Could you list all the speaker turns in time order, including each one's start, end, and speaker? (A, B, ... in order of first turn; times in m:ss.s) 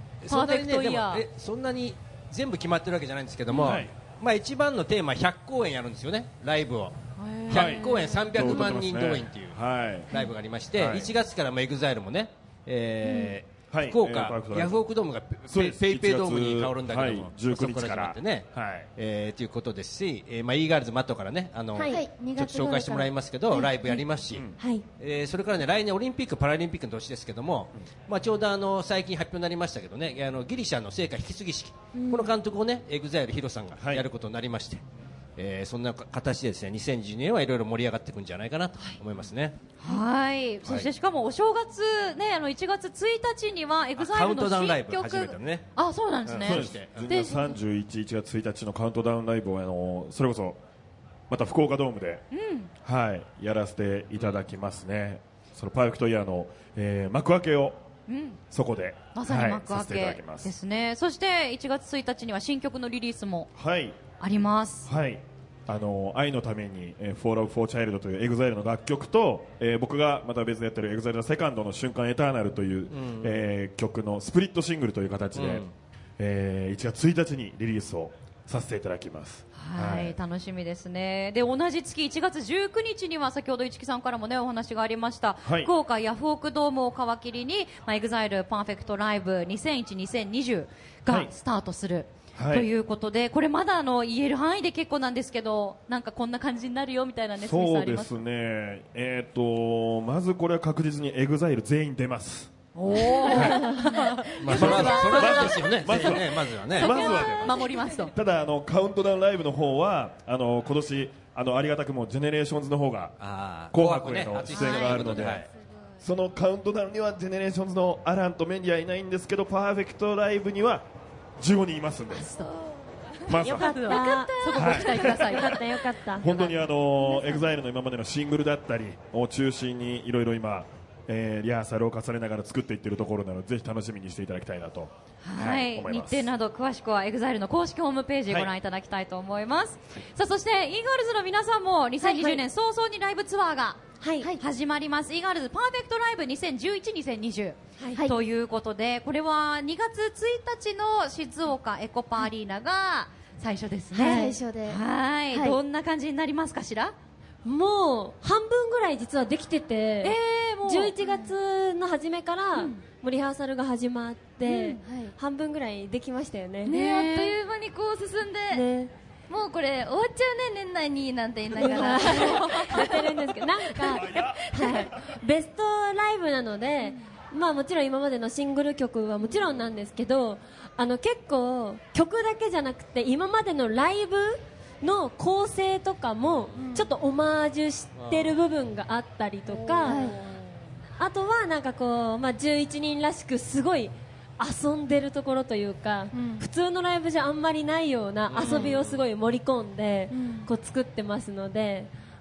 0:00.2-0:07.0 A
0:00.3-0:01.2 B
0:03.6-0:03.8 B
0:03.6-0:03.9 C
0:07.2-0:08.3 B
0:07.5-0:24.5 A
0:07.5-0:10.1 C
0:10.7-0:11.1 C
0:13.7-0:14.8 C
0:15.5-0:18.9 C
0:21.8-0:22.0 D
0:21.9-0:23.7 E
0:24.6-0:24.8 D
0:25.0-0:34.8 A
0:31.9-0:32.3 D
0:33.8-0:34.1 C
0:35.4-0:39.6 A
0:39.8-0:47.4 B
0:40.6-0:40.9 A
0:44.0-0:45.7 A
0:46.2-0:47.1 A
0:46.4-0:50.6 C
0:51.3-0:52.2 C
0:52.3-0:52.7 B
0:52.8-0:57.8 C
0:58.1-0:58.4 B
0:58.5-1:00.5 C
0:59.1-1:03.5 B
1:03.6-1:04.0 C
1:04.2-1:04.9 B
1:04.8-1:15.6 C
1:12.9-1:13.3 A
1:15.3-1:15.7 A
1:16.2-1:20.2 C
1:19.5-1:38.2 B
1:25.4-1:25.7 C
1:31.1-1:31.3 C
1:32.4-1:32.7 C
1:37.4-1:42.5 C
1:42.7-1:46.2 B
1:43.2-1:43.7 C
1:43.4-1:43.9 D
1:44.4-1:47.3 A
1:44.5-1:53.2 C
1:46.7-1:48.1 B
1:53.2-1:55.5 A
1:53.7-1:55.4 C
1:54.5-1:55.3 B
1:56.0-2:00.8 C
2:01.4-2:02.4 C
2:03.3-2:03.9 C
2:03.4-2:05.6 B
2:03.4-2:06.3 D
2:04.5-2:05.2 C
2:06.2-2:16.3 C
2:06.2-2:06.5 B
2:15.2-2:23.8 B
2:22.0-2:22.4 D
2:24.0-2:24.3 D
2:24.4-2:36.9 B
2:27.8-2:28.1 D
2:34.0-2:35.6 E
2:34.0-2:34.4 D
2:37.4-2:46.7 D
2:40.0-2:41.3 B
2:42.5-2:42.8 B
2:44.4-2:44.8 B
2:44.8-2:45.1 E
2:46.6-2:47.4 B
2:46.6-2:48.6 E
2:48.5-2:48.9 D
2:49.3-2:54.9 E
2:51.6-3:10.1 D
2:51.7-2:52.8 B
2:53.9-2:54.8 C
3:06.6-3:06.9 E
3:08.0-3:08.4 A
3:09.8-3:10.2 E
3:09.8-3:10.4 B
3:11.0-3:21.9 D
3:16.1-3:16.5 E
3:18.3-3:19.0 A
3:18.4-3:18.7 B
3:20.1-3:20.5 E